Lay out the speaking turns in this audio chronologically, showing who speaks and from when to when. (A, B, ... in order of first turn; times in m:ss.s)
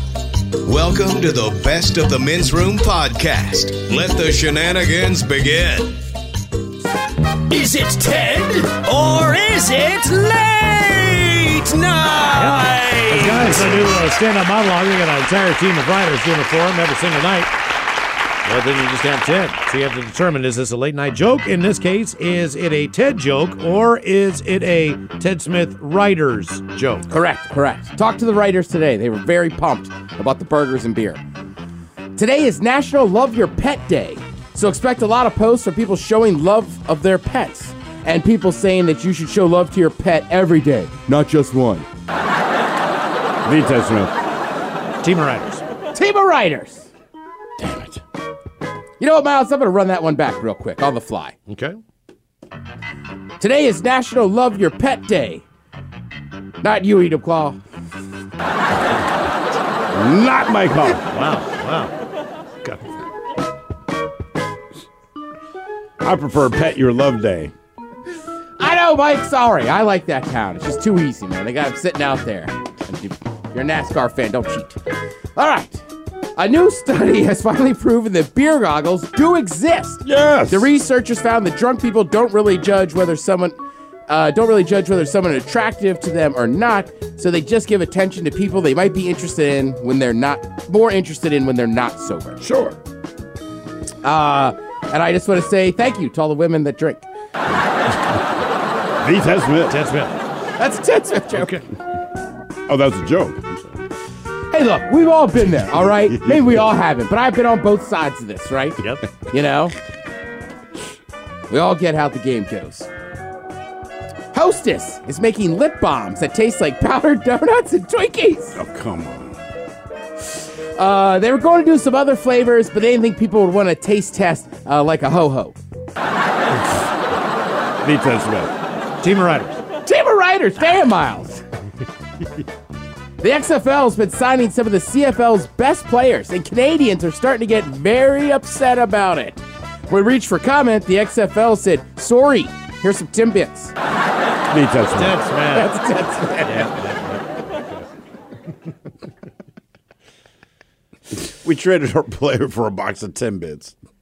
0:00.6-0:06.0 A
0:07.5-0:13.9 B
0:12.4-0:17.5 C
0:18.4-0:27.1 C
0:27.1-0:31.2 D
0:32.2-0:41.9 D
0:43.4-0:44.1 E
0:45.0-0:45.6 C
0:45.9-0:46.9 D
0:47.6-0:48.0 E
0:49.0-0:51.4 D
0:51.5-0:51.8 C
0:53.4-0:55.4 D
0:56.6-0:57.6 D
0:59.9-1:01.1 E
1:01.1-1:01.9 C
1:06.0-1:07.5 E
1:08.6-1:14.8 D
1:15.4-1:15.8 D
1:16.4-1:32.4 D
1:20.0-1:20.7 E
1:32.4-1:32.8 E
1:34.0-1:37.1 D
1:39.0-1:39.8 E
1:39.7-1:40.2 C
1:40.6-1:41.6 D
1:41.4-1:41.6 C
1:42.7-1:43.7 E
1:44.5-1:49.7 D
1:46.0-1:46.4 E
1:48.8-1:49.0 C
1:51.5-1:52.9 D
1:54.3-1:58.6 D
1:58.6-1:59.4 E
2:00.8-2:05.6 D
2:07.8-2:08.5 E
2:09.0-2:09.6 C
2:09.8-2:11.4 D
2:13.2-2:23.7 D
2:24.5-2:25.2 E
2:25.0-2:25.8 C
2:25.5-2:26.7 D
2:26.4-2:27.2 C
2:31.4-2:33.8 E